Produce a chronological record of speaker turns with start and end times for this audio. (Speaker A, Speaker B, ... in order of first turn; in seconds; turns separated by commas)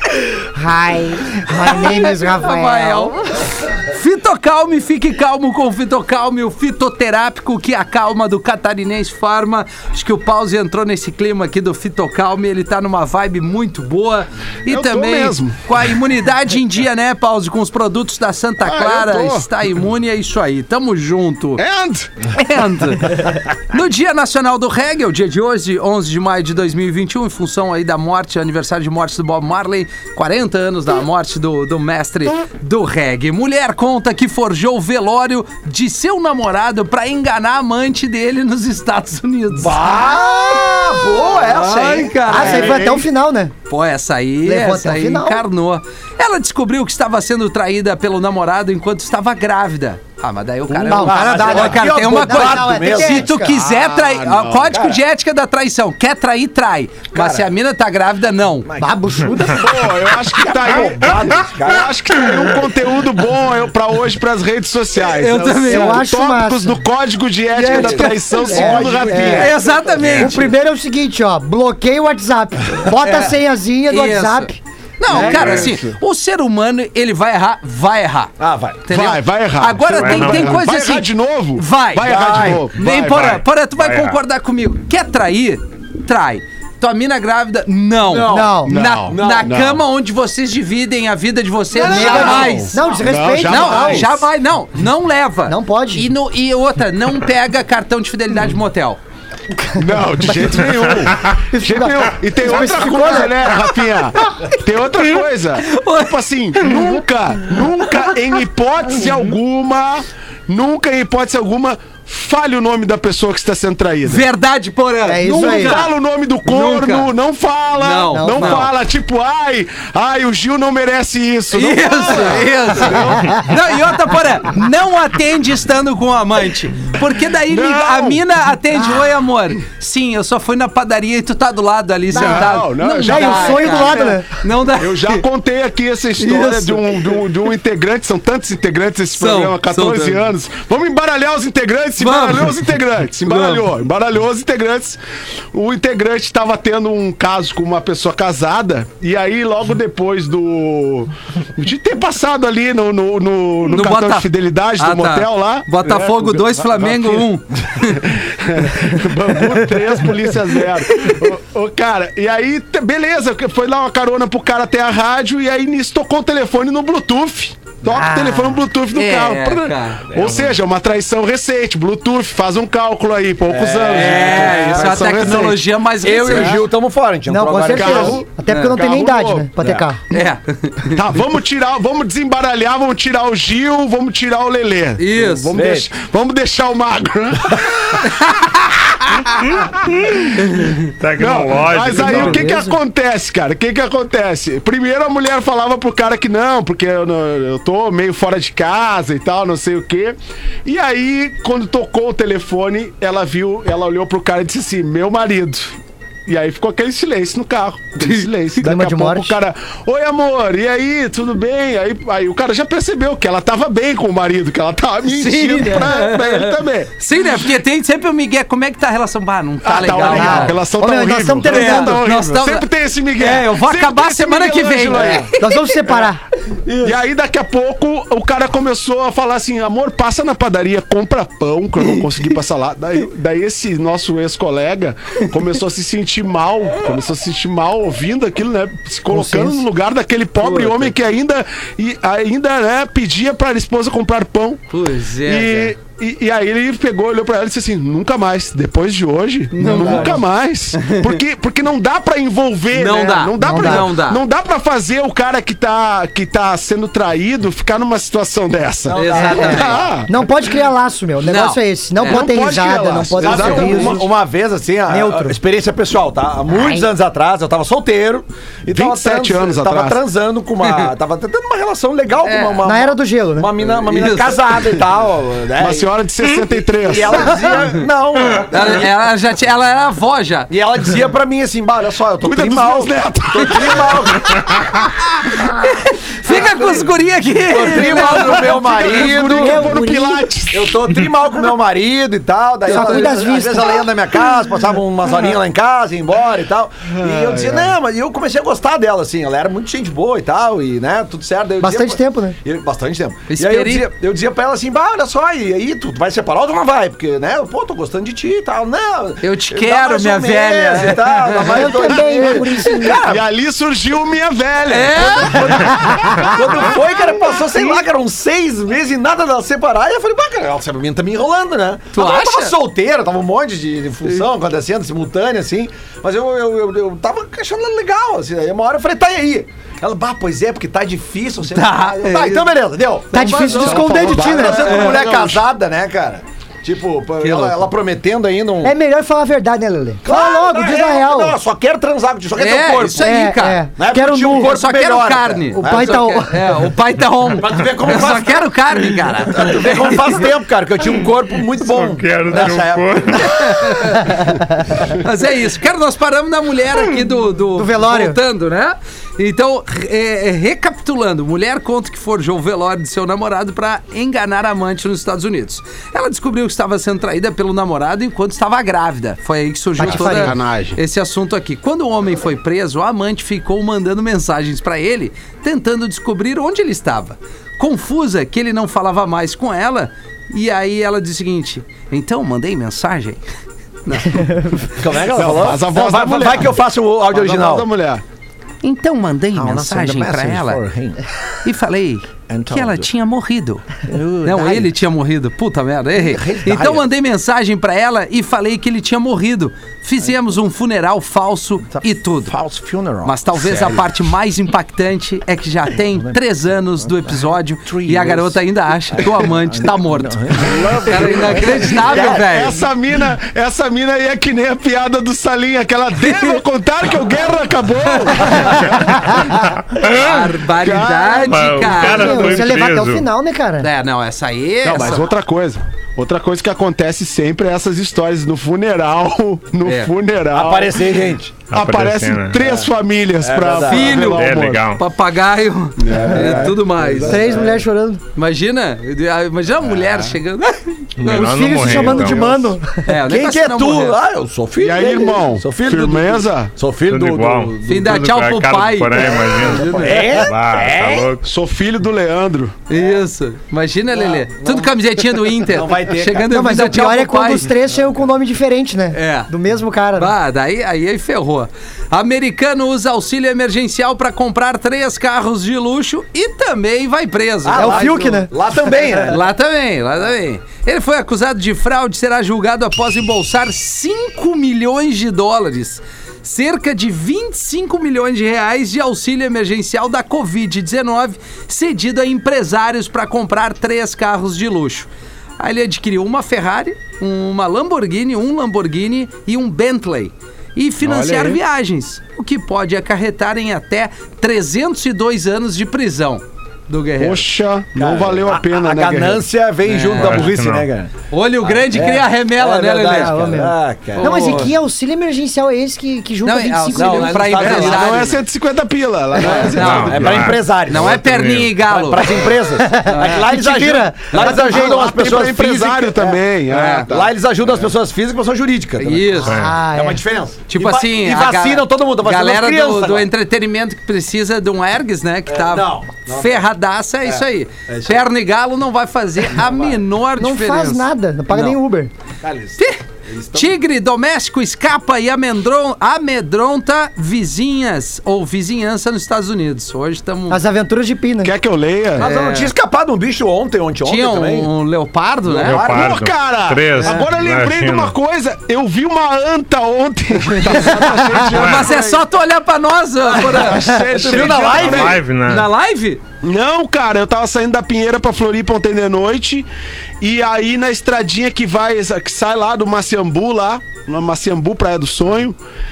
Speaker A: 0.5-3.2, Speaker B: 1.5-21.6, Speaker C: 14.7-15.6, Speaker C: 18.6-19.5, Speaker C: 21.6-22.2, Speaker B: 22.3-40.5, Speaker D: 39.5-43.0, Speaker B: 41.3-42.9, Speaker A: 42.3-43.5, Speaker B: 43.7-58.7, Speaker A: 44.4-45.4, Speaker C: 50.7-51.0, Speaker A: 50.9-53.5, Speaker D: 51.0-53.3, Speaker C: 53.5-54.8, Speaker D: 54.7-55.0, Speaker D: 57.1-57.5, Speaker D: 58.6-59.7, Speaker A: 58.8-59.6, Speaker C: 59.4-69.5, Speaker D: 60.2-61.9, Speaker B: 65.0-66.0, Speaker A: 65.7-66.8, Speaker B: 67.5-68.5, Speaker D: 67.6-70.3, Speaker A: 68.5-69.6, Speaker B: 69.3-70.5, Speaker E: 70.0-70.3, Speaker A: 70.2-74.6, Speaker B: 73.0-73.3, Speaker B: 73.9-78.3, Speaker C: 75.1-75.9, Speaker D: 75.1-75.8, Speaker D: 78.4-78.9, Speaker B: 78.8-92.8, Speaker C: 78.9-83.5, Speaker E: 79.9-80.6, Speaker D: 82.0-82.6, Speaker E: 83.8-84.2, Speaker D: 88.0-89.5, Speaker A: 88.3-88.8, Speaker C: 88.6-89.8, Speaker D: 91.7-92.7, Speaker A: 91.8-94.1, Speaker C: 92.0-94.3, Speaker B: 93.4-99.0, Speaker A: 95.5-96.1, Speaker A: 99.5-100.9, Speaker C: 99.7-114.2, Speaker A: 101.5-103.7, Speaker B: 105.6-107.0, Speaker B: 114.0-115.9, Speaker A: 115.0-115.8, Speaker C: 115.3-123.4, Speaker B: 116.4-117.1, Speaker B: 117.7-118.7, Speaker A: 118.1-118.7, Speaker B: 121.5-135.2, Speaker C: 127.5-128.2, Speaker C: 132.1-134.1, Speaker A: 132.1-134.3, Speaker C: 134.7-145.0, Speaker B: 136.2-137.3, Speaker B: 139.2-140.2, Speaker B: 142.0-142.6, Speaker B: 143.2-143.6, Speaker C: 145.5-175.7, Speaker B: 153.6-158.2, Speaker B: 158.7-160.1, Speaker B: 160.9-161.3, Speaker A: 167.8-168.6, Speaker B: 168.9-170.2, Speaker D: 173.5-175.2, Speaker B: 173.9-176.6, Speaker D: 176.0-178.2, Speaker C: 176.3-176.6, Speaker A: 177.3-180.0, Speaker C: 177.7-179.5, Speaker B: 178.5-178.8, Speaker D: 179.6-179.8, Speaker B: 180.1-181.0, Speaker C: 180.9-188.4, Speaker B: 185.0-185.6, Speaker D: 185.5-185.9, Speaker B: 188.0-188.7, Speaker C: 189.1-190.4, Speaker B: 190.4-190.8, Speaker E: 190.8-192.5, Speaker C: 191.2-217.4, Speaker B: 191.8-192.8, Speaker A: 208.6-209.3, Speaker B: 215.0-220.6, Speaker C: 219.6-225.3, Speaker A: 219.9-222.1, Speaker B: 221.5-225.8, Speaker A: 225.4-226.2, Speaker B: 226.5-226.9, Speaker C: 226.8-244.6, Speaker A: 239.1-239.6, Speaker B: 240.4-240.9, Speaker B: 244.7-245.7, Speaker C: 245.2-260.1, Speaker B: 249.5-251.1, Speaker B: 252.7-254.2, Speaker A: 253.4-253.9, Speaker D: 258.9-260.0, Speaker B: 258.9-259.9, Speaker A: 259.1-264.1, Speaker B: 261.2-262.3, Speaker C: 262.0-264.1, Speaker D: 263.2-275.9, Speaker B: 263.3-263.9, Speaker A: 264.9-265.4, Speaker A: 266.5-266.8, Speaker C: 268.7-270.0, Speaker B: 270.6-270.9, Speaker B: 272.2-272.7, Speaker A: 272.6-273.6, Speaker B: 273.7-274.4, Speaker C: 275.6-277.4, Speaker D: 276.8-278.9, Speaker B: 278.4-280.5, Speaker D: 280.5-284.7, Speaker C: 282.2-284.9, Speaker B: 285.4-289.1, Speaker D: 286.3-286.6, Speaker D: 287.4-289.7, Speaker C: 287.9-291.1, Speaker A: 289.3-290.3, Speaker D: 290.5-313.2, Speaker A: 292.7-293.9, Speaker B: 292.7-293.1, Speaker C: 297.0-297.7, Speaker A: 301.6-302.4, Speaker B: 303.3-303.9, Speaker B: 309.2-312.6, Speaker A: 311.3-313.1, Speaker C: 312.9-316.3, Speaker B: 314.7-315.6, Speaker D: 314.9-338.7, Speaker A: 315.8-316.4, Speaker B: 321.9-322.5, Speaker B: 331.5-332.5, Speaker A: 333.1-335.1, Speaker C: 333.4-335.4, Speaker B: 337.2-337.7, Speaker A: 338.6-341.4, Speaker D: 340.0-343.1, Speaker B: 342.4-343.6, Speaker A: 343.0-344.5, Speaker D: 343.8-346.1, Speaker B: 344.3-350.3, Speaker A: 345.6-346.4, Speaker D: 347.3-348.5, Speaker D: 349.3-353.6, Speaker E: 351.6-353.3, Speaker B: 353.1-354.3, Speaker B: 354.9-383.2, Speaker A: 357.5-358.2, Speaker A: 369.8-370.4, Speaker C: 369.8-370.8, Speaker B: 383.8-384.7, Speaker D: 384.7-387.7, Speaker C: 385.1-388.0, Speaker B: 388.6-390.6, Speaker D: 389.3-391.0, Speaker B: 391.4-393.6, Speaker D: 392.3-392.9, Speaker D: 393.8-394.7, Speaker B: 394.2-402.4, Speaker D: 396.0-396.9, Speaker D: 401.7-403.8, Speaker B: 403.0-412.6, Speaker D: 407.6-408.4, Speaker D: 408.9-412.5, Speaker C: 410.5-419.3, Speaker B: 417.9-418.5, Speaker E: 419.7-420.3, Speaker B: 419.8-422.5, Speaker C: 420.4-421.4, Speaker E: 421.1-423.1, Speaker A: 421.6-423.7, Speaker B: 423.6-425.1, Speaker C: 424.6-430.9, Speaker B: 429.6-429.9, Speaker D: 430.3-431.4, Speaker E: 431.5-432.5, Speaker C: 431.5-434.6, Speaker D: 433.2-434.1, Speaker B: 433.6-437.4, Speaker E: 434.0-434.8, Speaker C: 435.8-437.6, Speaker D: 437.0-437.5, Speaker A: 437.1-438.0, Speaker B: 438.1-441.8, Speaker C: 439.7-440.1, Speaker E: 441.0-442.2, Speaker A: 441.0-442.9, Speaker B: 442.9-444.0, Speaker D: 443.0-447.8, Speaker C: 444.6-446.5, Speaker E: 446.9-451.2, Speaker B: 447.6-450.2, Speaker D: 449.3-451.1, Speaker C: 451.2-452.5, Speaker B: 452.7-457.5, Speaker D: 452.7-453.0, Speaker D: 454.0-454.7, Speaker D: 455.4-456.3, Speaker A: 456.2-460.1, Speaker B: 458.9-459.3, Speaker B: 459.9-468.0, Speaker D: 467.4-469.2, Speaker A: 467.5-468.3, Speaker B: 469.0-497.2, Speaker C: 490.8-491.4, Speaker C: 497.0-499.2, Speaker D: 497.8-500.9, Speaker B: 499.6-500.3, Speaker E: 499.9-500.7, Speaker B: 501.1-503.4, Speaker D: 501.4-504.5, Speaker A: 503.0-507.4, Speaker B: 504.0-504.5, Speaker B: 506.2-508.2, Speaker D: 506.7-508.1, Speaker C: 507.4-510.3, Speaker B: 509.2-512.3, Speaker D: 509.3-523.1, Speaker E: 509.6-511.6, Speaker A: 512.5-515.0, Speaker B: 512.9-513.2, Speaker C: 514.4-517.6, Speaker B: 516.5-516.9, Speaker B: 518.8-519.4, Speaker A: 519.2-520.0, Speaker E: 519.2-519.6, Speaker B: 520.5-531.6, Speaker D: 525.3-526.4, Speaker D: 527.0-528.1, Speaker D: 529.3-529.8, Speaker A: 530.2-531.9, Speaker D: 532.2-533.6, Speaker B: 532.6-540.4, Speaker A: 540.3-541.3, Speaker C: 541.2-542.1, Speaker D: 542.0-544.5, Speaker B: 542.0-542.5, Speaker B: 543.8-545.7, Speaker D: 545.2-546.0, Speaker E: 545.4-547.9, Speaker C: 545.6-552.0, Speaker A: 550.7-551.3, Speaker B: 551.3-554.5, Speaker E: 551.3-551.8, Speaker C: 553.2-555.0, Speaker D: 553.2-555.0, Speaker E: 554.1-555.5, Speaker B: 555.2-556.0, Speaker C: 556.2-559.5, Speaker C: 560.0-565.4